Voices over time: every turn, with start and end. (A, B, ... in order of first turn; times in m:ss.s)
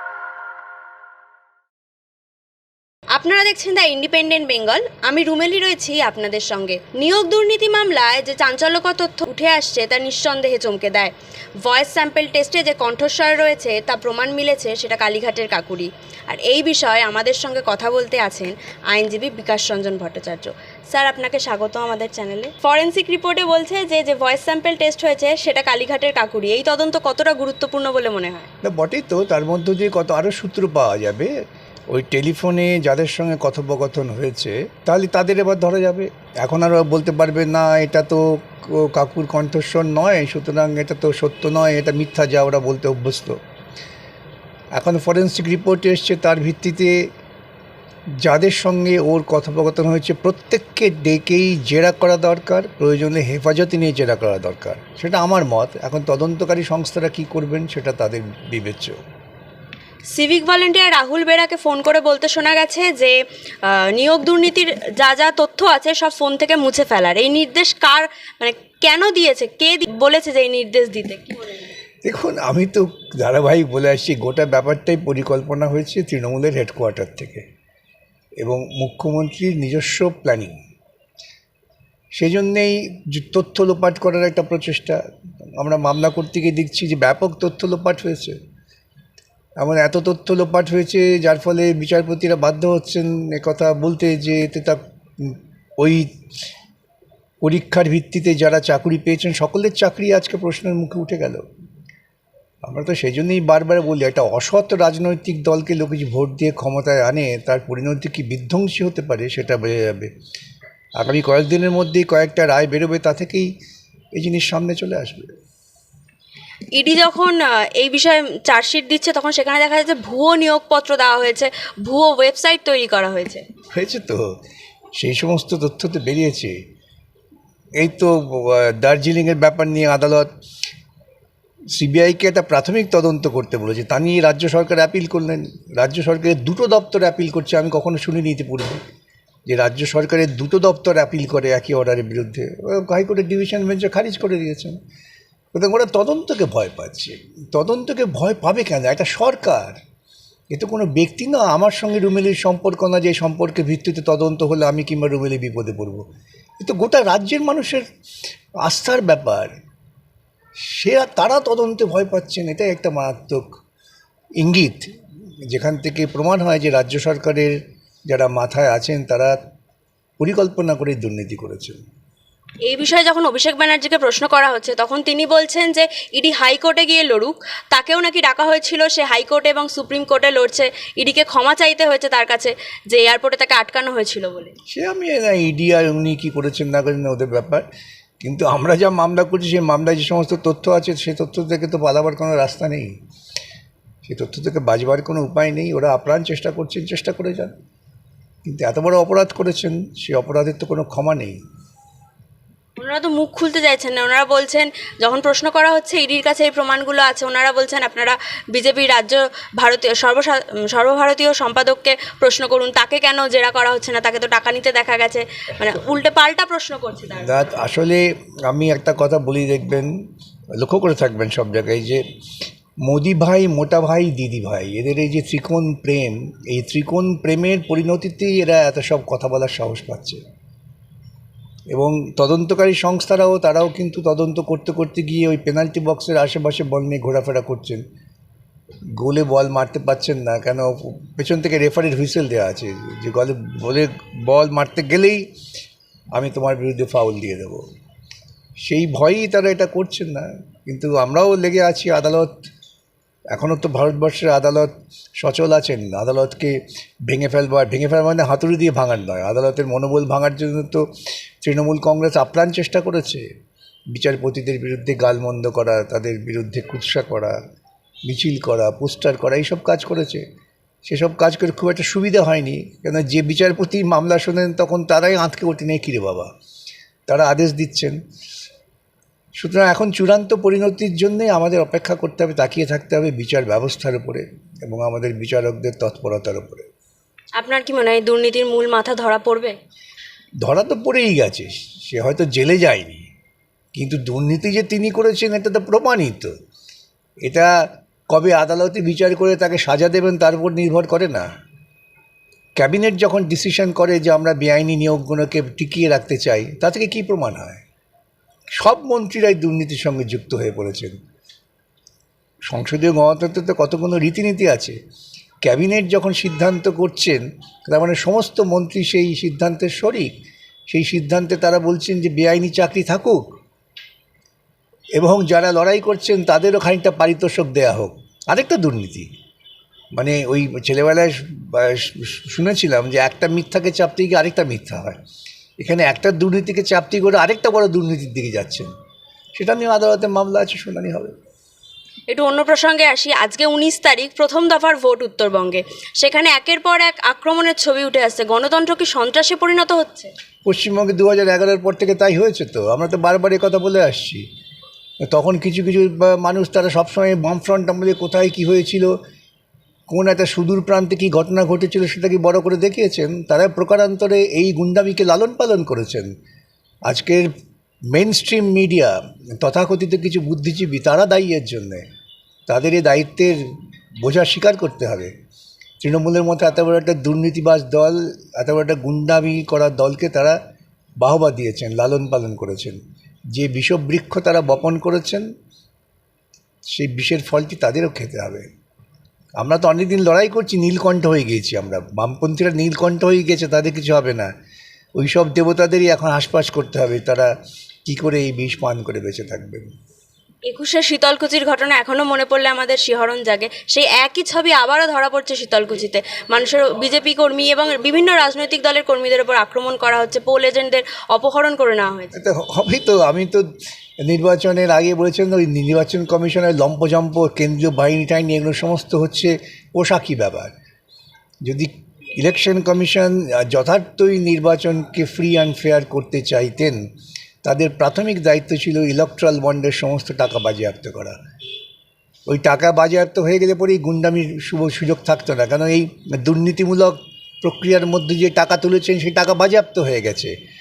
0:03.1-0:28.5 A
0:28.6-0:31.3 B
0:31.9-0:43.4 B
0:44.7-0:47.0 B
0:48.2-0:59.0 B
1:00.1-1:11.7 A
1:12.0-1:17.4 B
1:18.4-1:20.6 B
1:22.1-1:25.0 B
1:25.5-1:28.4 B
1:29.6-1:36.1 B
1:37.4-1:41.4 B
1:42.6-1:50.1 B
1:51.0-1:53.5 B
1:54.1-1:55.3 B
1:56.7-2:03.4 A
2:03.7-2:04.3 B
2:05.0-2:06.6 B
2:07.8-2:10.3 B
2:11.7-2:18.8 B
2:19.5-2:24.8 B
2:25.5-2:29.8 B
2:30.5-2:36.0 B
2:36.6-2:37.8 B
2:38.6-2:39.5 B
2:40.6-2:43.5 B
2:44.4-2:44.9 B
2:45.5-2:49.4 B
2:50.2-2:51.8 B
2:52.6-3:04.5 A
3:04.7-3:07.6 B
3:08.2-3:12.9 B
3:14.0-3:17.5 B
3:18.4-3:21.4 B
3:22.8-3:37.4 A
3:37.1-3:39.9 B
3:40.6-3:42.0 B
3:42.8-3:50.2 B
3:51.7-3:57.8 B
3:59.0-4:05.2 B
4:06.1-4:07.6 B
4:08.6-4:12.4 B
4:13.3-4:14.7 B
4:15.2-4:20.8 B
4:21.4-4:23.2 B
4:23.9-4:27.4 B
4:28.0-4:30.2 B
4:30.8-4:36.3 B
4:37.1-4:38.0 B
4:39.4-4:46.7 B
4:47.4-4:49.6 A
4:50.4-4:53.0 B
4:53.7-4:56.3 B
4:57.2-4:57.5 B
4:58.1-5:01.3 B
5:02.6-5:07.6 B
5:08.6-5:11.0 B
5:12.5-5:14.8 B
5:15.4-5:20.1 B
5:20.7-5:23.3 B
5:25.0-5:29.1 B
5:30.0-5:35.0 B
5:35.6-5:38.7 B
5:39.3-5:41.1 B
5:42.1-5:50.1 A
5:50.4-5:54.2 B
5:55.1-5:58.9 B
5:59.9-6:06.1 B
6:06.9-6:07.3 B
6:07.9-6:11.8 B
6:12.5-6:13.4 B
6:14.0-6:15.1 B
6:15.8-6:20.4 B
6:21.0-6:22.8 B
6:23.3-6:25.2 B
6:26.7-6:28.5 B
6:29.4-6:34.3 B
6:35.0-6:37.3 B
6:37.8-6:39.7 B
6:40.5-6:52.1 A
6:52.1-6:53.4 B
6:54.0-7:00.5 B
7:01.4-7:06.8 B
7:07.4-7:11.2 B
7:12.3-7:20.3 B